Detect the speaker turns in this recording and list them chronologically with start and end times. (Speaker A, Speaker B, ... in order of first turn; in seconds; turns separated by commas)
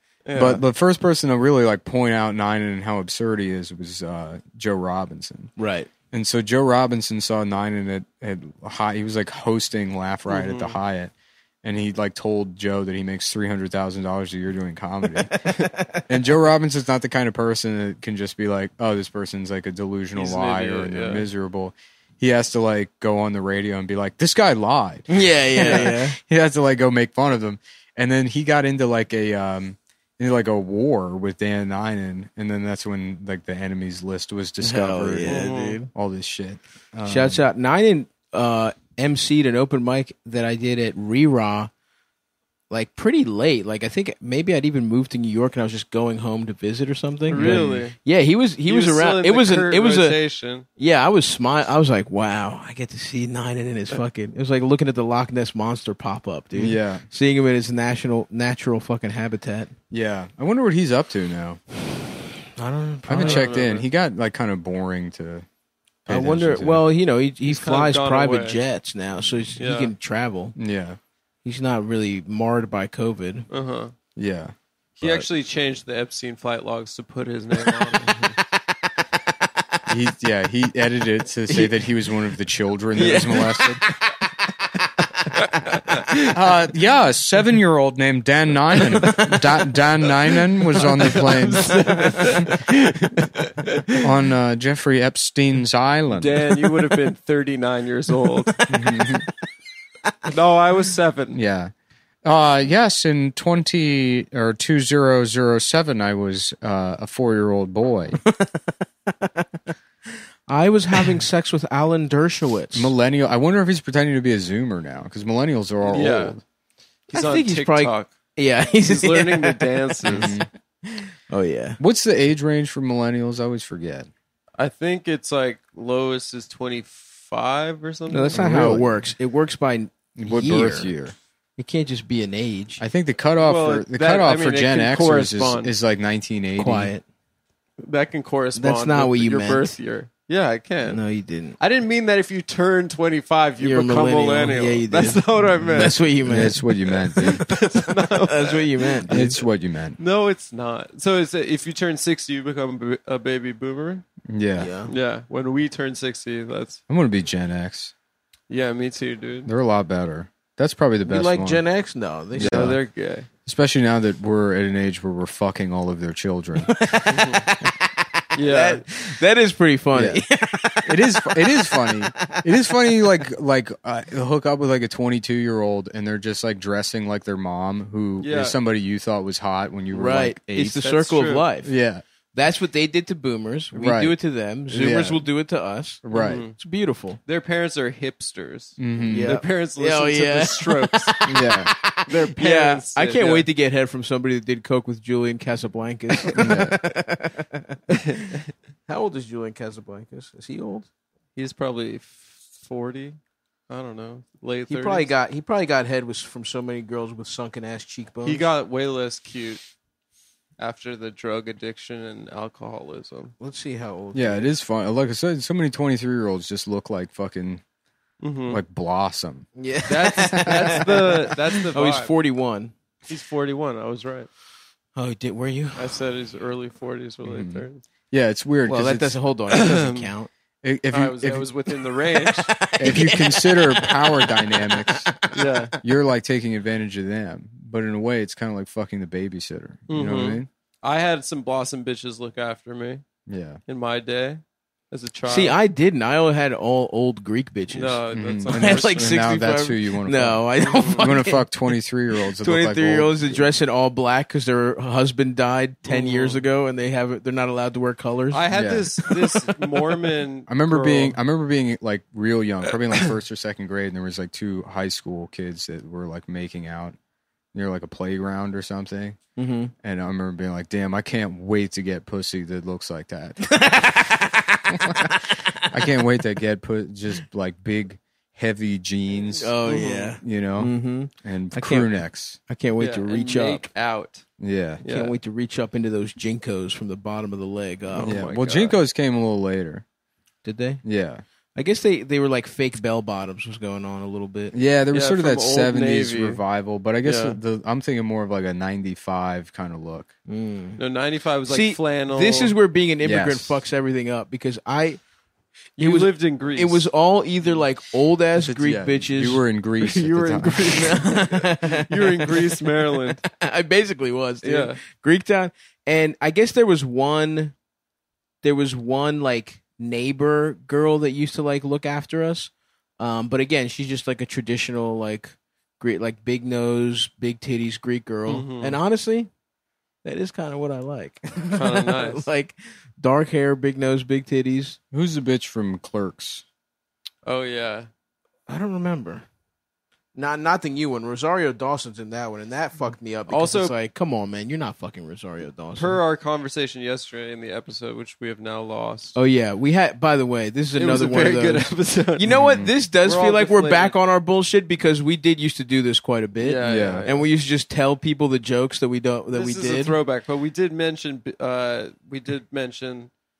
Speaker A: 0.3-0.6, Speaker B: 0.3-5.5, Speaker C: 5.6-5.9, Speaker B: 6.1-11.1, Speaker A: 10.3-10.8, Speaker B: 11.6-15.5, Speaker C: 15.2-16.1, Speaker B: 16.1-37.4, Speaker A: 20.1-21.3, Speaker C: 25.1-26.2, Speaker A: 25.6-25.9, Speaker C: 34.6-35.9, Speaker A: 35.2-35.8, Speaker C: 37.0-41.7, Speaker C: 42.7-50.2, Speaker A: 47.3-48.0, Speaker B: 47.3-47.9, Speaker A: 48.7-50.7, Speaker C: 50.8-59.7, Speaker B: 56.5-57.0, Speaker B: 59.9-61.6, Speaker C: 62.6-63.5, Speaker B: 63.1-65.5, Speaker A: 63.2-63.9, Speaker B: 66.1-66.8, Speaker C: 66.1-70.5, Speaker A: 67.5-68.6, Speaker A: 69.6-69.9, Speaker B: 70.6-71.0, Speaker C: 71.4-73.5, Speaker A: 73.5-73.9, Speaker B: 74.2-74.5, Speaker A: 75.0-78.2, Speaker C: 77.7-79.6, Speaker B: 79.9-83.8, Speaker C: 81.5-81.8, Speaker C: 83.0-86.3, Speaker B: 86.2-92.5, Speaker C: 88.8-89.4, Speaker C: 90.9-93.3, Speaker A: 91.1-93.2, Speaker B: 94.0-96.5, Speaker A: 96.1-98.5, Speaker C: 98.5-99.2, Speaker B: 98.7-99.3, Speaker A: 100.2-101.4, Speaker B: 101.3-101.7, Speaker B: 102.2-108.2, Speaker C: 108.2-109.5, Speaker C: 110.5-112.9, Speaker B: 112.7-116.4, Speaker A: 115.9-116.4, Speaker A: 117.1-118.1, Speaker C: 117.1-120.3, Speaker A: 118.8-120.4, Speaker B: 120.0-120.5, Speaker C: 120.9-121.8, Speaker B: 121.8-124.1, Speaker A: 124.6-128.4, Speaker C: 128.1-130.9, Speaker B: 128.3-128.9, Speaker B: 130.2-131.2, Speaker C: 131.6-132.8, Speaker B: 132.8-136.9, Speaker A: 133.4-135.7, Speaker C: 136.6-137.0, Speaker A: 137.8-141.0, Speaker C: 138.6-139.7, Speaker C: 140.8-141.6, Speaker A: 141.6-146.5, Speaker C: 143.6-149.4, Speaker B: 146.3-147.4, Speaker A: 147.2-149.3, Speaker B: 149.1-150.0, Speaker A: 150.0-154.1, Speaker B: 154.3-154.7, Speaker C: 154.6-154.9, Speaker A: 154.9-156.8, Speaker B: 156.9-157.9, Speaker A: 158.5-159.5, Speaker B: 159.5-161.6, Speaker C: 161.1-162.7, Speaker B: 162.3-162.8, Speaker A: 162.4-163.3, Speaker B: 163.5-166.7, Speaker C: 166.6-172.4, Speaker A: 167.1-167.4, Speaker A: 168.3-168.8, Speaker B: 169.9-170.2, Speaker B: 170.9-180.8, Speaker A: 178.2-178.6, Speaker C: 179.9-181.7, Speaker A: 180.8-181.4, Speaker B: 181.6-182.0, Speaker C: 182.3-187.2, Speaker B: 183.7-184.2, Speaker B: 184.7-185.2, Speaker B: 186.0-186.4, Speaker A: 186.1-186.6, Speaker A: 187.3-191.2, Speaker B: 188.8-189.3, Speaker C: 189.1-198.0, Speaker B: 191.3-191.7, Speaker A: 192.1-193.5, Speaker B: 196.3-196.8, Speaker A: 197.9-198.5, Speaker C: 198.9-200.9, Speaker A: 201.4-203.2, Speaker A: 203.7-205.1, Speaker C: 204.7-208.5, Speaker A: 208.2-209.6, Speaker A: 210.6-213.3, Speaker C: 213.4-214.5, Speaker B: 214.1-217.6, Speaker A: 218.2-218.6, Speaker B: 218.5-219.5, Speaker C: 219.6-222.7, Speaker A: 219.9-222.1, Speaker A: 223.1-224.3, Speaker C: 225.0-226.0, Speaker A: 225.8-227.8, Speaker B: 227.2-229.2, Speaker C: 228.7-230.3, Speaker A: 229.5-230.1, Speaker B: 230.6-231.5, Speaker A: 230.9-232.6, Speaker C: 232.1-235.6, Speaker B: 232.8-235.1, Speaker A: 235.3-235.8, Speaker B: 235.8-240.5, Speaker A: 239.9-243.0, Speaker B: 243.3-243.6, Speaker A: 243.7-245.6, Speaker C: 245.3-251.4, Speaker A: 247.7-249.2, Speaker B: 248.1-250.4, Speaker A: 250.6-251.1, Speaker B: 251.0-253.4, Speaker C: 252.4-258.4, Speaker A: 255.9-256.4, Speaker A: 258.3-261.2, Speaker B: 258.5-258.9, Speaker C: 259.0-259.9, Speaker B: 260.5-267.0, Speaker B: 267.5-269.2, Speaker C: 269.4-269.7, Speaker B: 269.8-273.6, Speaker C: 273.4-276.0, Speaker B: 274.7-275.1, Speaker B: 275.7-282.4, Speaker C: 279.4-283.7, Speaker A: 279.7-280.1, Speaker A: 282.8-284.2, Speaker B: 284.4-284.8, Speaker A: 284.8-285.1, Speaker C: 284.8-288.2, Speaker A: 287.9-288.8, Speaker B: 288.0-289.8, Speaker C: 290.4-290.8, Speaker B: 290.8-291.2, Speaker C: 291.6-294.6, Speaker B: 294.5-300.1, Speaker A: 294.9-296.4, Speaker A: 297.0-297.4, Speaker C: 300.3-300.8, Speaker A: 300.8-302.6, Speaker C: 301.5-305.0, Speaker B: 303.0-303.6, Speaker A: 305.8-306.9, Speaker C: 305.8-309.4, Speaker B: 308.4-310.9, Speaker A: 309.9-313.2, Speaker C: 310.4-317.6, Speaker A: 314.4-314.8, Speaker C: 318.4-329.3, Speaker A: 328.3-328.8, Speaker C: 330.0-334.8, Speaker A: 331.6-332.3, Speaker B: 334.9-336.4, Speaker A: 337.3-337.9, Speaker C: 338.5-339.2, Speaker C: 340.1-346.0, Speaker A: 343.3-343.7, Speaker A: 345.8-349.2, Speaker C: 349.1-360.0, Speaker A: 350.8-352.4, Speaker B: 352.3-352.7, Speaker A: 353.0-354.0, Speaker A: 356.4-357.3, Speaker B: 356.6-357.1, Speaker A: 359.3-363.1